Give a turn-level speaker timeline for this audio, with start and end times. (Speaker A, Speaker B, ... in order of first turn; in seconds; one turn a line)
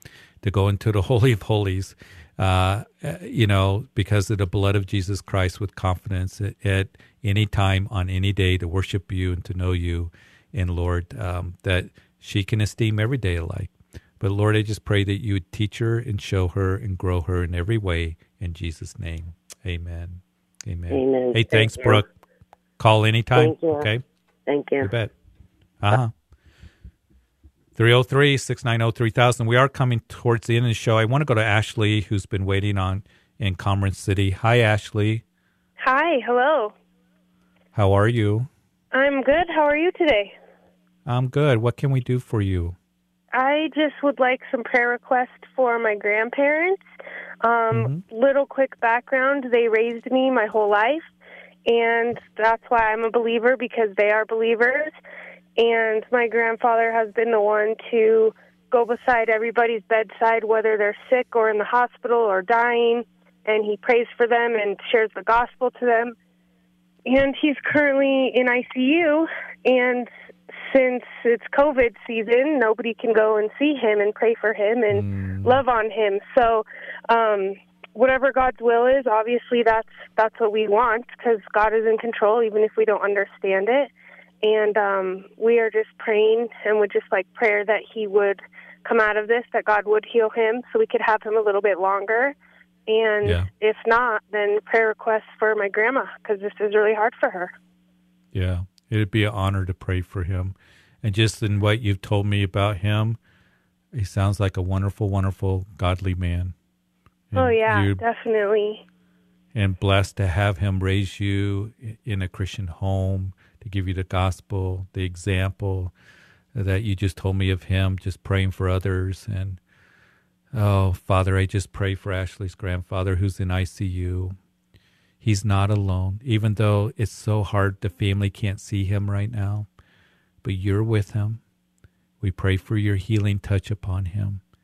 Speaker A: 0.4-22.1
Speaker B: 20.9-22.0
Speaker A: 22.8-24.0
Speaker B: 23.4-23.9
Speaker B: 24.5-24.9
Speaker A: 24.8-25.1
Speaker A: 25.8-26.1
Speaker A: 27.8-35.2
Speaker C: 35.8-36.7
Speaker A: 37.8-38.5
Speaker C: 38.9-40.4
Speaker A: 41.1-42.8
Speaker C: 43.3-46.8
Speaker C: 47.4-51.1
Speaker A: 47.7-48.0
Speaker C: 51.7-54.9
Speaker C: 55.6-66.2
Speaker C: 67.1-83.9
Speaker A: 74.9-75.6
Speaker C: 84.4-92.4
Speaker C: 92.9-97.5
Speaker A: 98.3-103.2
Speaker A: 103.9-106.5
Speaker A: 107.3-108.0
Speaker C: 107.3-108.8
Speaker A: 109.5-115.9
Speaker A: 116.5-119.6
Speaker A: 120.5-124.4
Speaker A: 125.2-129.7
Speaker A: 130.4-131.4
Speaker A: 132.2-134.4